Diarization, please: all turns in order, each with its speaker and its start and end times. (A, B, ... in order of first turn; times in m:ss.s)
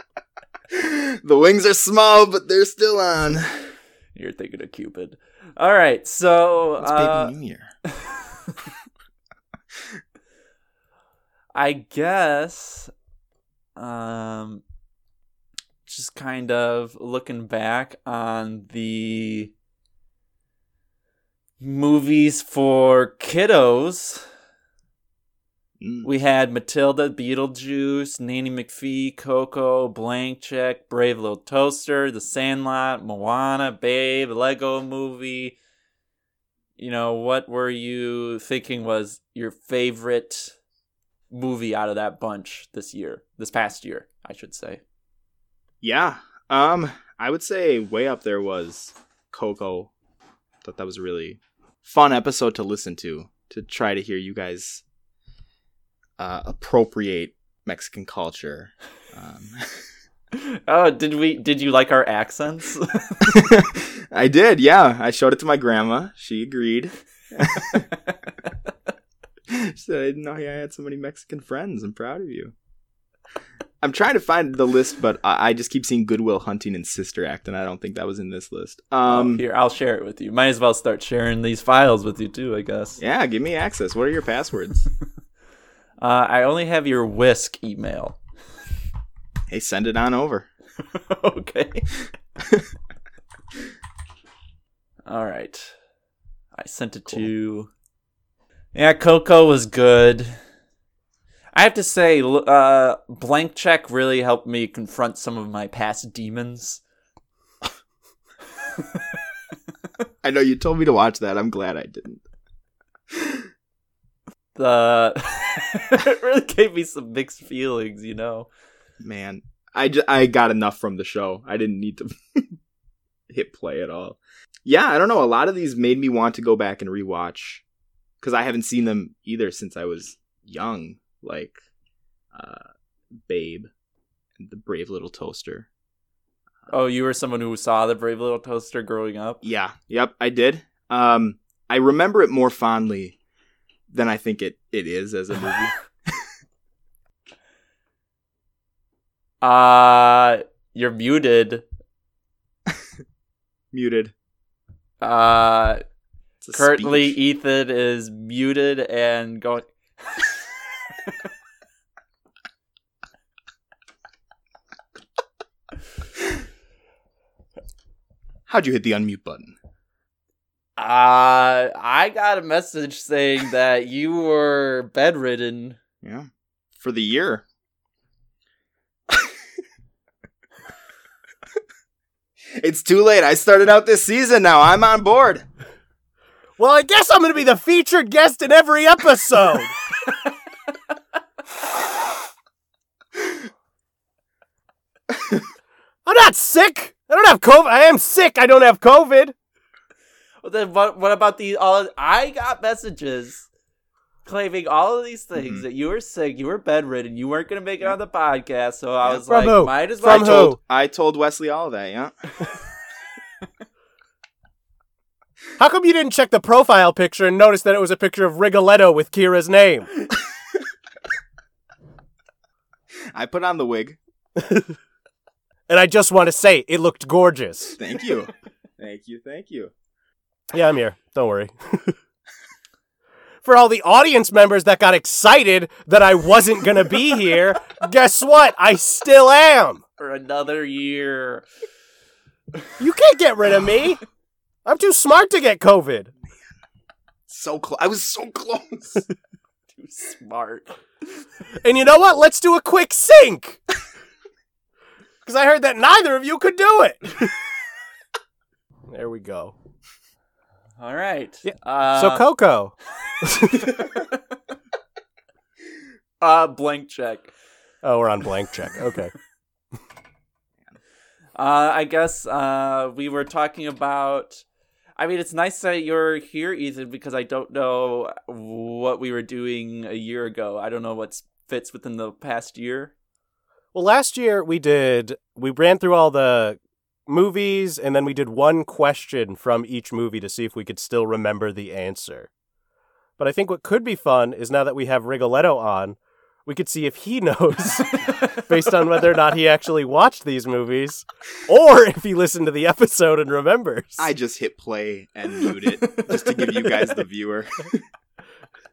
0:00.7-0:03.7 A
0:04.2-0:07.3 B
0:06.8-0:07.7 A
0:08.0-0:08.5 B
0:11.6-0:12.9 B
0:13.8-0:14.6 B
0:15.9-0:19.5 B
0:21.6-0:24.3 B
0:25.8-0:26.1 A
0:26.0-0:35.6 B
0:36.8-0:40.6 B
0:41.3-0:44.8 B
0:45.8-0:49.9 A
0:50.6-0:54.8 A
0:56.2-0:59.7 A
1:00.3-1:03.5 B
1:03.2-1:07.9 A
1:09.5-1:12.5 A
1:13.8-1:19.4 A
1:19.0-1:23.0 B
1:23.0-1:24.9 A
1:26.0-1:28.2 B
1:29.5-1:30.5 A
1:30.9-1:31.9 B
1:35.1-1:35.7 B
1:36.5-1:37.7 B
1:38.7-1:40.4 B
1:41.5-1:46.8 B
1:50.2-1:52.2 A
1:53.1-1:53.4 A
1:54.6-1:58.5 B
1:59.0-2:02.5 A
2:03.3-2:07.6 A
2:08.2-2:11.6 A
2:12.3-2:12.7 A
2:13.3-2:13.7 A
2:14.4-2:15.7 A
2:16.7-2:19.4 B
2:19.4-2:23.2 A
2:23.9-2:25.7 A
2:29.4-2:31.6 B
2:33.7-2:34.1 A
2:35.0-2:35.8 B
2:36.4-2:37.2 A
2:36.5-2:40.2 B
2:48.5-2:49.6 A
2:50.8-2:55.8 B
2:56.8-2:57.4 A
3:02.6-3:05.4 A
3:06.6-3:09.8 C
3:16.0-3:19.4 C
3:20.4-3:23.5 B
3:24.2-3:30.5 B
3:25.4-3:25.6 A
3:29.3-3:30.6 C
3:30.0-3:32.2 A
3:35.6-3:39.9 C
3:43.1-3:44.0 A
3:44.4-3:44.8 C
3:45.7-3:47.8 C
3:47.8-3:49.7 A
3:50.5-3:52.0 C
3:53.4-3:59.8 C
4:00.0-4:01.5 B
4:02.8-4:04.0 C
4:04.6-4:06.1 C
4:07.3-4:09.0 A
4:09.7-4:10.7 B
4:11.6-4:13.6 C
4:15.2-4:17.4 C
4:18.9-4:19.6 C
4:20.8-4:22.2 B
4:21.5-4:23.9 C
4:23.6-4:24.0 B
4:26.2-4:27.3 B
4:27.8-4:29.1 C
4:31.4-4:34.4 B
4:35.0-4:42.9 B
4:43.7-4:52.3 C
4:53.2-5:04.1 C
4:57.9-4:58.4 B
5:04.0-5:07.8 A
5:05.8-5:06.7 B